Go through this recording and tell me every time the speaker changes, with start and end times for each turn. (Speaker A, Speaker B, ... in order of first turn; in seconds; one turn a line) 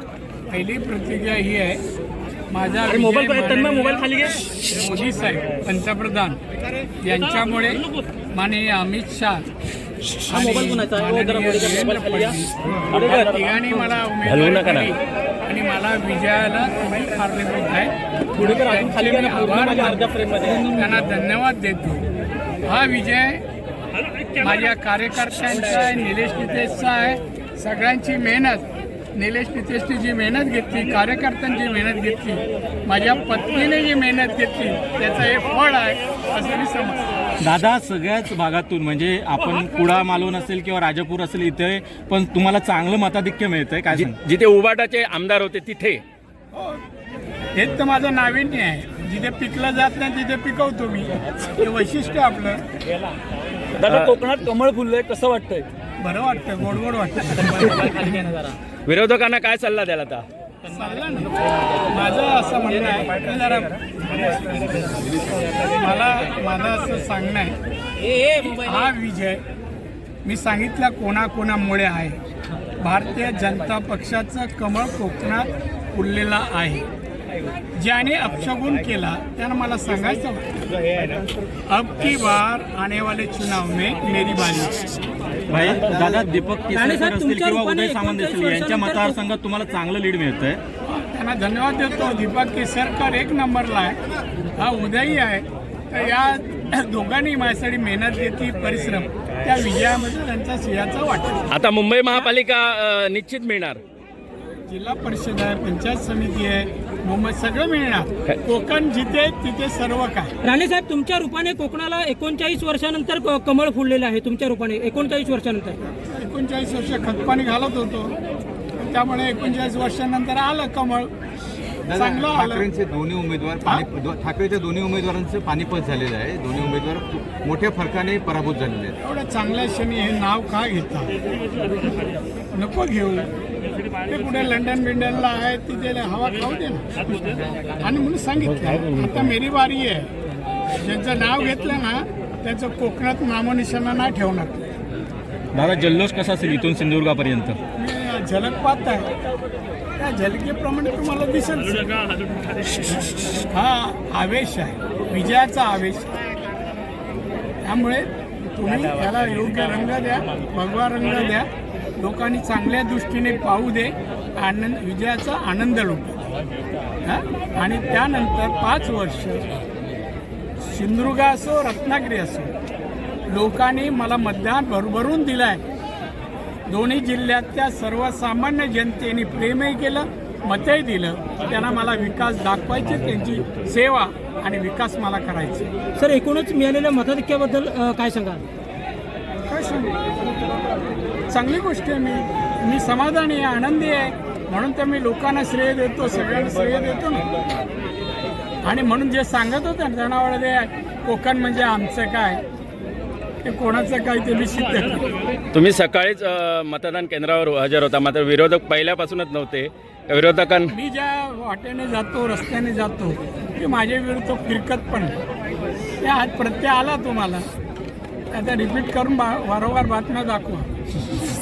Speaker A: 0.5-1.8
Speaker A: 2.5-6.4
Speaker B: 2.9-4.2
Speaker A: 7.0-9.4
Speaker A: 10.2-22.0
Speaker B: 12.9-13.4
Speaker B: 14.2-14.9
Speaker A: 22.6-23.4
Speaker A: 24.4-28.6
Speaker A: 29.1-37.0
Speaker C: 37.4-44.2
Speaker B: 43.9-46.0
Speaker A: 47.5-52.6
Speaker B: 53.8-55.6
Speaker A: 56.0-58.1
Speaker B: 58.9-60.2
Speaker A: 60.7-61.3
Speaker A: 61.9-63.8
Speaker A: 65.8-67.5
Speaker A: 68.2-69.4
Speaker A: 70.2-72.2
Speaker A: 72.8-76.8
Speaker A: 77.8-80.4
Speaker A: 81.7-84.8
Speaker C: 85.5-90.6
Speaker D: 86.7-89.2
Speaker A: 90.9-94.0
Speaker A: 94.6-101.5
Speaker B: 101.5-103.8
Speaker A: 104.7-110.3
Speaker D: 110.4-115.8
Speaker A: 116.0-118.2
Speaker A: 118.8-121.1
Speaker E: 121.8-129.0
Speaker A: 121.9-122.7
Speaker A: 129.0-131.1
Speaker A: 132.5-133.3
Speaker A: 134.0-140.1
Speaker A: 140.7-144.6
Speaker C: 145.5-147.6
Speaker A: 147.7-149.1
Speaker A: 150.0-151.9
Speaker A: 153.5-156.1
Speaker A: 157.6-166.2
Speaker A: 167.0-169.5
Speaker A: 170.7-172.5
Speaker A: 173.3-175.6
Speaker A: 176.7-185.7
Speaker D: 186.0-188.4
Speaker A: 189.5-189.9
Speaker A: 191.3-197.2
Speaker A: 198.7-202.4
Speaker A: 203.4-205.0
Speaker B: 205.5-210.7
Speaker A: 210.7-215.1
Speaker A: 216.0-217.4
Speaker A: 218.3-220.7